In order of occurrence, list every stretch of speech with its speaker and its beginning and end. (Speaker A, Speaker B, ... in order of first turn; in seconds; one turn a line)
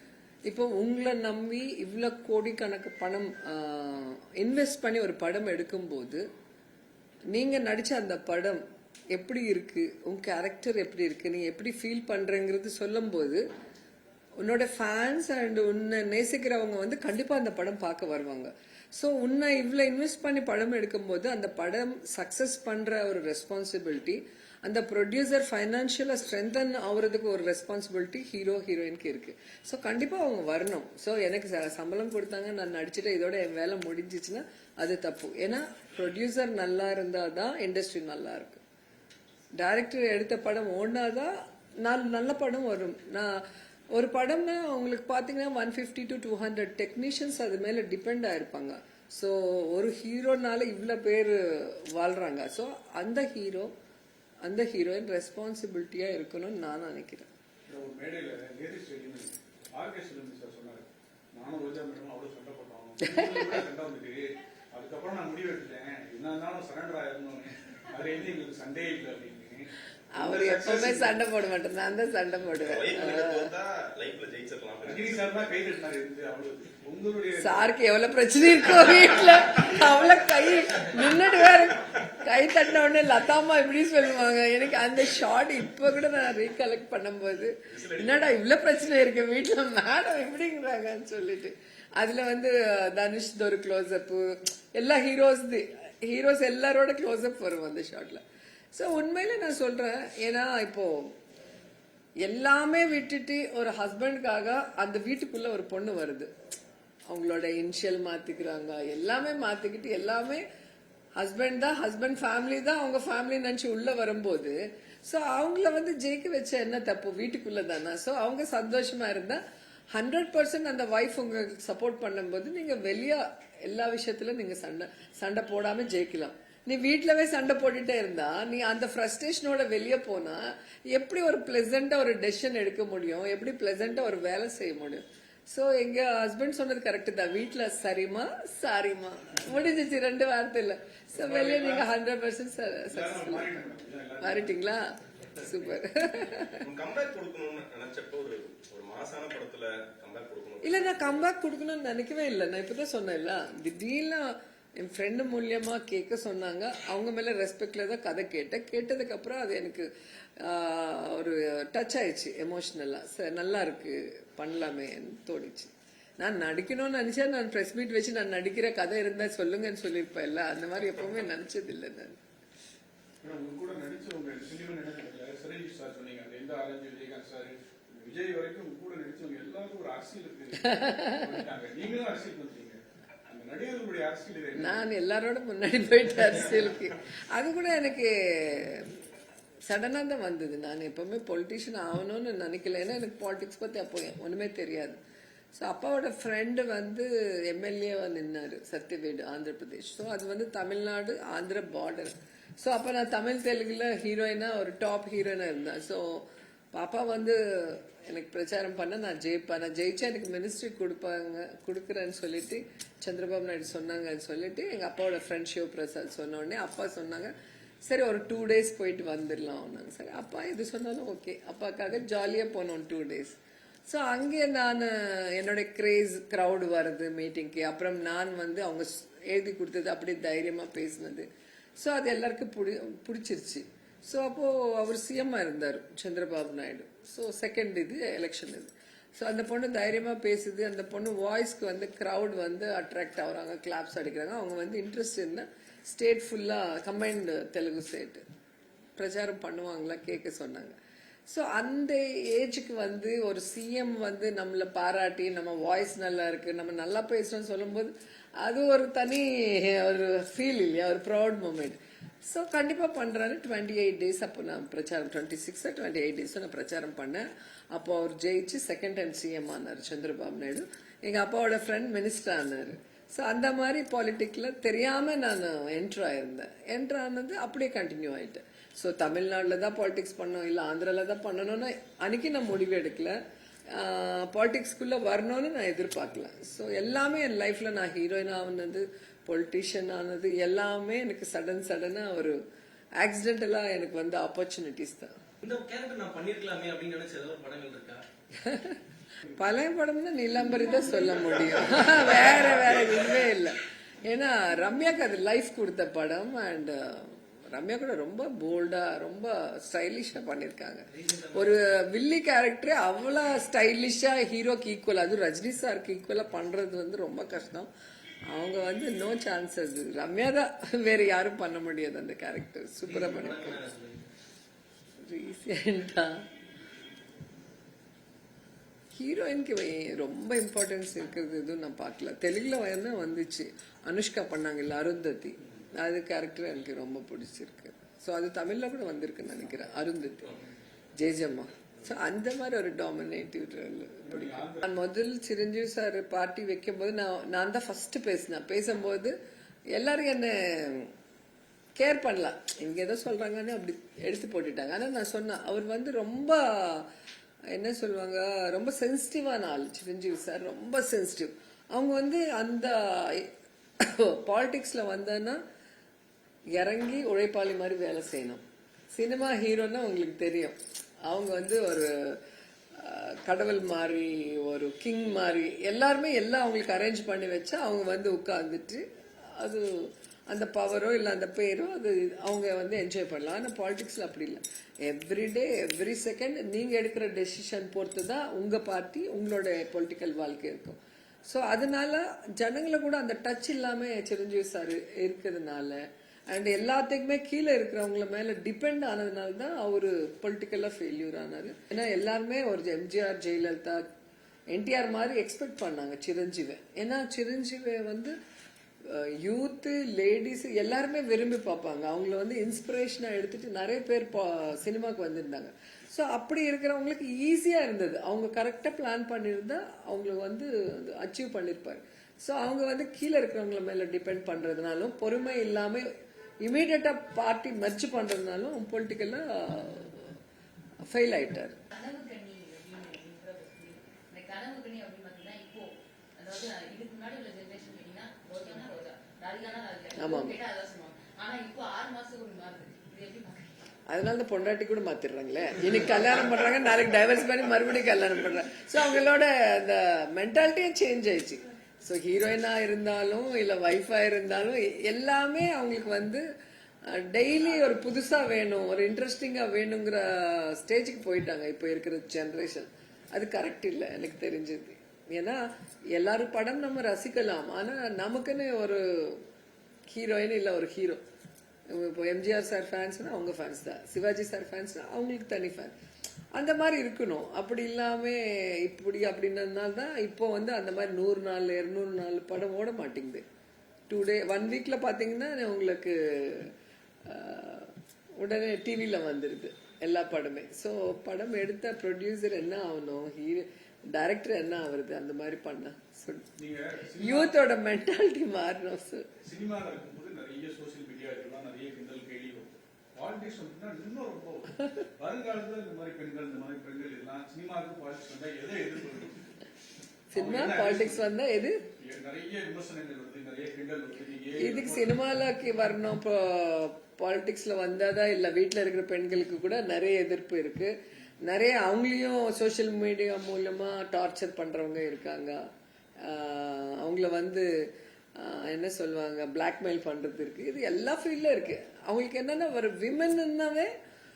Speaker A: 0.5-6.2
Speaker A: 7.3-13.4
Speaker A: 14.4-38.6
Speaker A: 39.5-53.7
Speaker A: 54.4-57.3
Speaker B: 57.7-71.2
Speaker A: 70.1-73.5
Speaker C: 72.6-75.5
Speaker B: 74.8-77.7
Speaker A: 77.4-98.2
Speaker C: 87.7-88.3
Speaker A: 98.7-101.2
Speaker A: 102.2-106.3
Speaker A: 107.1-110.5
Speaker A: 111.2-119.4
Speaker A: 119.9-143.6
Speaker B: 141.1-141.9
Speaker B: 142.9-144.7
Speaker A: 144.2-146.6
Speaker C: 146.6-151.2
Speaker A: 150.6-172.2
Speaker B: 173.2-184.9
Speaker A: 180.7-181.3
Speaker A: 184.6-189.0
Speaker A: 189.7-195.0
Speaker A: 195.5-217.3
Speaker A: 217.8-248.2
Speaker A: 249.0-250.8
Speaker A: 251.3-283.2
Speaker A: 283.7-292.4
Speaker A: 293.0-295.1
Speaker D: 295.4-298.0
Speaker A: 298.4-298.8
Speaker A: 299.3-317.7
Speaker D: 310.9-311.6
Speaker A: 318.3-323.6
Speaker D: 322.8-324.0
Speaker A: 325.0-326.2
Speaker A: 328.9-340.4
Speaker A: 341.0-349.2
Speaker B: 344.0-344.7
Speaker A: 349.7-350.9
Speaker A: 351.8-356.9
Speaker A: 357.5-365.4
Speaker A: 366.6-372.2
Speaker A: 372.8-378.9
Speaker A: 379.4-403.8
Speaker A: 404.5-408.2
Speaker A: 408.9-425.9
Speaker A: 426.4-430.2
Speaker A: 430.9-431.6
Speaker E: 431.7-443.7
Speaker A: 440.0-440.4
Speaker A: 443.9-456.2
Speaker A: 456.9-469.3
Speaker A: 469.9-471.0
Speaker A: 471.7-475.8
Speaker A: 476.4-483.2
Speaker A: 483.9-486.5
Speaker A: 487.1-496.3
Speaker B: 496.4-497.4
Speaker A: 497.0-499.1
Speaker B: 499.2-509.3
Speaker A: 510.1-511.6
Speaker B: 510.1-511.1
Speaker B: 511.8-515.0
Speaker A: 514.4-525.5
Speaker A: 526.0-533.7